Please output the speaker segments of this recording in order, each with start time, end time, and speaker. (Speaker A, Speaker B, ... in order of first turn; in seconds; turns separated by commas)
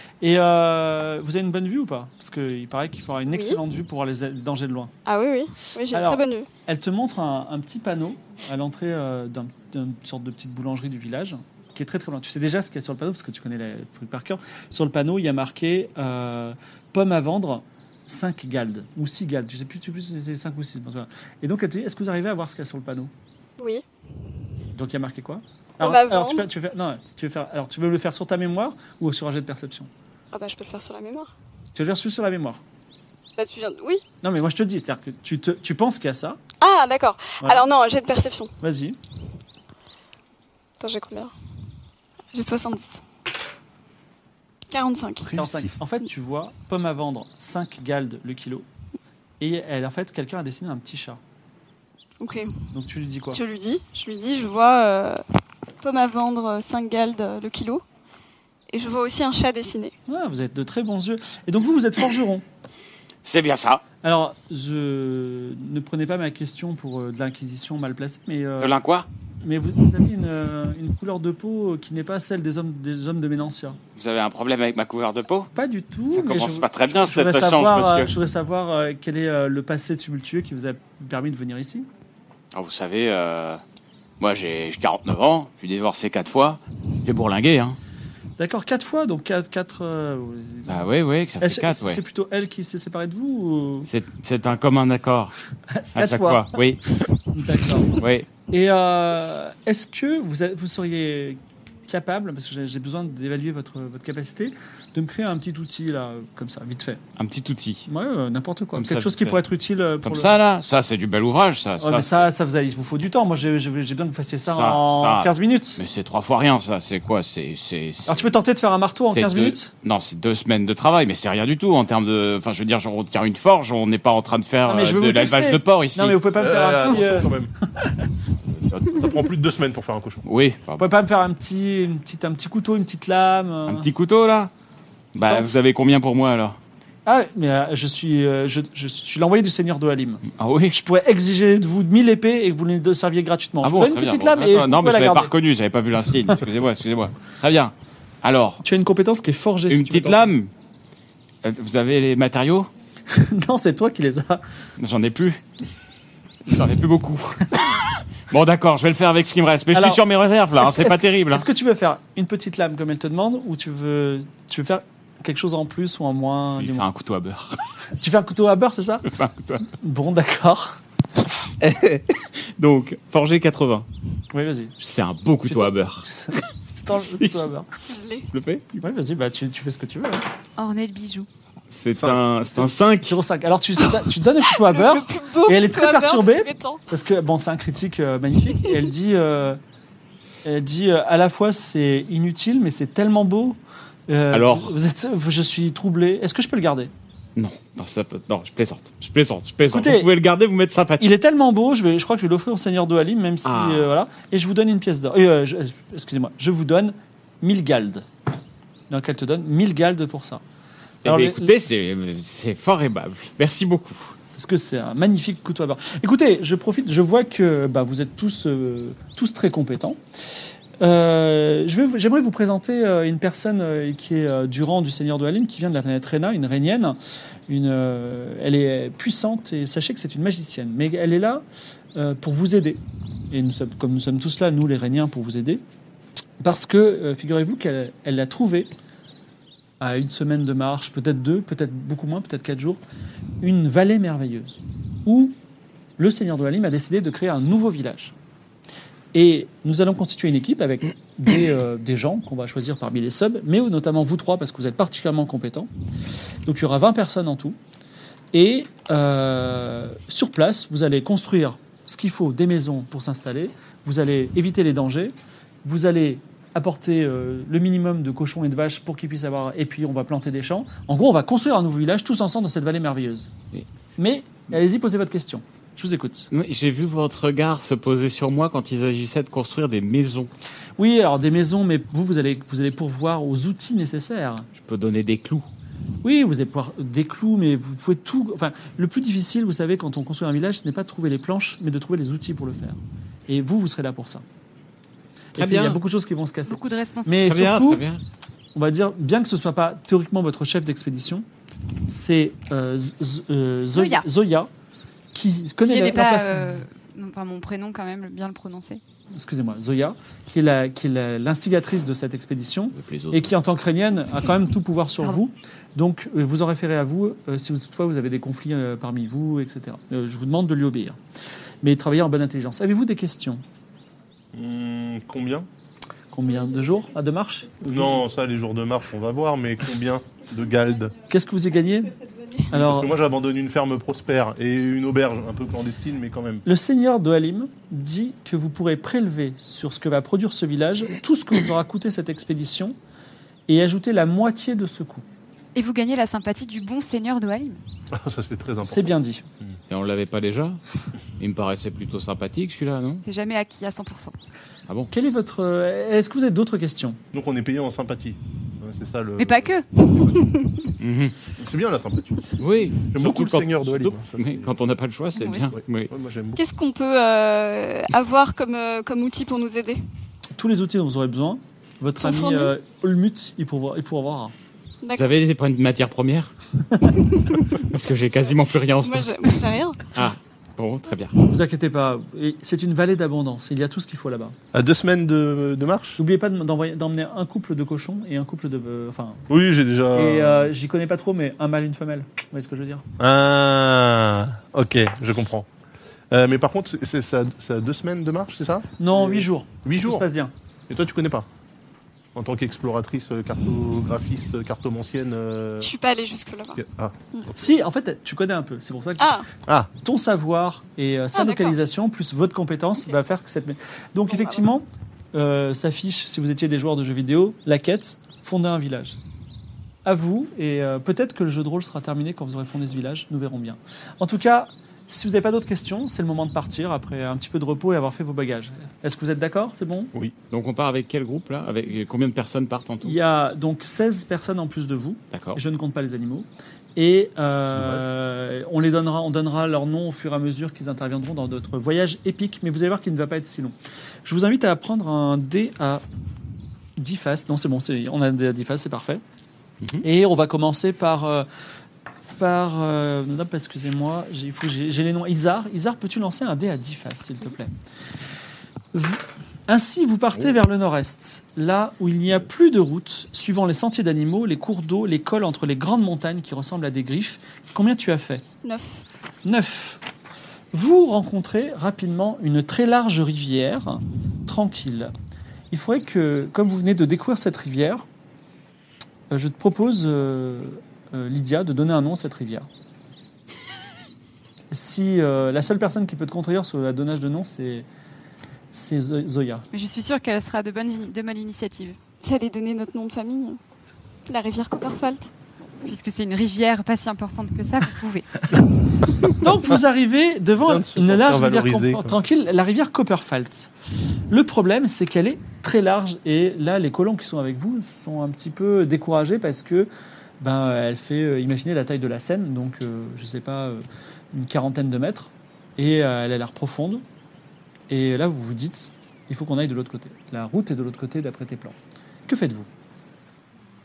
Speaker A: 0.2-4.9, Speaker B: 3.3-3.6, Speaker B: 5.1-6.5, Speaker A: 5.9-23.1, Speaker B: 23.6-23.8, Speaker A: 24.7-29.9, Speaker B: 25.8-26.5, Speaker B: 30.3-31.3, Speaker A: 31.8-32.6, Speaker B: 33.4-34.0, Speaker A: 34.2-36.4, Speaker B: 36.6-38.5, Speaker A: 38.6-39.0, Speaker B: 40.8-41.3, Speaker B: 42.3-43.0, Speaker B: 44.7-45.3, Speaker C: 45.3-45.7, Speaker A: 45.4-48.7, Speaker A: 49.4-51.2, Speaker B: 52.2-52.6, Speaker A: 52.7-53.4, Speaker B: 53.3-55.2, Speaker B: 55.8-57.8, Speaker B: 58.7-59.9, Speaker A: 60.1-62.4, Speaker D: 63.2-63.8, Speaker A: 64.0-68.8, Speaker D: 68.6-69.1, Speaker A: 69.4-73.8, Speaker D: 74.0-75.5, Speaker A: 75.5-81.9, Speaker D: 76.1-78.1, Speaker D: 82.5-83.6, Speaker D: 84.2-87.8, Speaker A: 88.4-90.9, Speaker D: 90.7-92.0, Speaker A: 91.4-93.9, Speaker D: 93.9-95.4, Speaker A: 95.7-96.6, Speaker D: 96.0-97.1, Speaker A: 97.3-107.0, Speaker D: 97.9-98.3, Speaker D: 107.2-107.9, Speaker A: 107.9-110.4, Speaker D: 108.8-109.4, Speaker D: 110.0-112.3, Speaker A: 111.8-115.8, Speaker D: 114.5-118.3, Speaker A: 118.1-119.7, Speaker D: 119.1-126.2, Speaker A: 124.7-127.9, Speaker C: 126.4-127.5, Speaker D: 128.7-129.1, Speaker C: 128.9-130.2, Speaker D: 130.2-130.9, Speaker A: 130.8-133.9, Speaker D: 133.7-134.5, Speaker D: 135.2-136.6, Speaker A: 135.3-135.6, Speaker A: 137.1-145.3, Speaker D: 140.3-140.8, Speaker D: 143.6-148.6, Speaker A: 148.6-150.3, Speaker D: 149.7-150.5, Speaker D: 151.4-152.7, Speaker A: 153.1-154.4, Speaker D: 154.8-155.4, Speaker D: 156.5-157.7, Speaker D: 158.3-161.4, Speaker A: 159.7-160.0, Speaker A: 160.6-166.9, Speaker D: 166.6-167.6, Speaker A: 168.0-169.1, Speaker D: 169.1-169.7, Speaker A: 169.7-170.8, Speaker D: 171.6-173.9, Speaker A: 174.3-174.8, Speaker D: 174.8-176.1, Speaker A: 175.5-177.7, Speaker D: 177.0-177.4, Speaker B: 177.8-178.3, Speaker D: 178.3-178.8, Speaker A: 178.8-180.2, Speaker E: 180.6-181.3, Speaker D: 181.7-183.2, Speaker A: 182.6-189.6, Speaker B: 184.6-186.8, Speaker A: 190.4-196.9, Speaker D: 194.3-194.8, Speaker D: 197.4-201.1, Speaker A: 199.7-200.1, Speaker A: 201.0-208.1, Speaker D: 203.4-203.9, Speaker A: 208.9-210.4, Speaker A: 211.1-211.5, Speaker D: 211.1-214.1, Speaker A: 214.4-220.0, Speaker A: 220.8-227.0, Speaker A: 227.5-231.4, Speaker A: 231.9-232.8, Speaker A: 233.3-235.6, Speaker A: 236.4-238.7, Speaker A: 239.8-242.8, Speaker A: 243.4-245.4, Speaker A: 246.0-248.1, Speaker A: 249.1-255.7, Speaker A: 256.4-257.6, Speaker A: 258.3-273.3, Speaker A: 274.0-276.3, Speaker D: 276.3-280.3, Speaker A: 280.8-284.5, Speaker D: 284.6-285.5, Speaker A: 286.0-294.2, Speaker A: 295.4-297.9, Speaker D: 295.4-295.8, Speaker E: 296.5-297.4, Speaker D: 297.2-298.0, Speaker A: 298.6-301.2, Speaker A: 301.9-304.5, Speaker E: 303.8-304.1, Speaker A: 305.1-306.6, Speaker E: 305.6-308.8, Speaker A: 309.1-321.0, Speaker D: 312.8-313.3, Speaker A: 321.6-323.4, Speaker C: 324.3-325.5, Speaker A: 326.1-328.0, Speaker B: 326.5-326.8, Speaker C: 327.7-330.9, Speaker A: 331.1-331.9, Speaker B: 332.0-332.4, Speaker A: 332.5-333.0, Speaker C: 332.5-336.4, Speaker A: 336.4-342.8, Speaker A: 343.5-345.1, Speaker E: 345.6-347.6, Speaker C: 347.9-348.9, Speaker A: 348.7-349.2, Speaker D: 349.7-350.6, Speaker D: 351.2-353.0, Speaker E: 353.0-354.1, Speaker A: 354.9-357.0, Speaker C: 357.1-360.4, Speaker E: 359.2-359.7, Speaker D: 360.8-361.1, Speaker C: 361.4-362.3, Speaker D: 362.4-365.9, Speaker C: 362.9-364.5, Speaker E: 365.2-365.5, Speaker C: 365.6-366.4, Speaker B: 366.4-369.8, Speaker A: 370.4-374.3, Speaker B: 372.0-372.5, Speaker B: 374.8-375.1, Speaker D: 374.9-376.3, Speaker A: 376.7-377.0, Speaker D: 377.3-379.4, Speaker B: 378.8-379.9, Speaker D: 379.9-381.1, Speaker A: 381.2-384.4, Speaker C: 384.5-386.0, Speaker A: 386.0-389.3, Speaker C: 389.3-390.5, Speaker A: 389.9-392.8, Speaker C: 393.0-395.5, Speaker C: 396.1-400.1, Speaker A: 398.8-400.3, Speaker C: 400.7-401.3, Speaker C: 402.1-405.7, Speaker B: 405.6-406.6, Speaker C: 406.6-407.3, Speaker A: 407.4-409.2, Speaker B: 409.0-409.3, Speaker A: 409.8-419.0, Speaker B: 411.1-411.6, Speaker B: 414.1-414.5, Speaker A: 419.9-429.9, Speaker D: 430.3-433.0, Speaker A: 432.8-443.5, Speaker D: 435.1-435.4, Speaker C: 437.5-437.8, Speaker A: 444.1-445.8, Speaker A: 446.8-449.0, Speaker A: 449.8-451.3, Speaker A: 452.2-457.5, Speaker A: 458.7-468.2, Speaker B: 468.4-468.8, Speaker A: 469.2-469.8, Speaker A: 470.5-474.9, Speaker A: 475.5-477.9, Speaker A: 479.1-482.5, Speaker A: 484.5-487.7, Speaker A: 488.5-489.4, Speaker E: 489.5-491.8, Speaker B: 492.0-493.4, Speaker B: 494.1-495.1, Speaker E: 495.6-498.1, Speaker A: 499.2-503.5, Speaker C: 500.4-501.9, Speaker A: 504.1-509.7, Speaker A: 510.2-516.8, Speaker A: 517.7-521.5, Speaker A: 522.1-522.5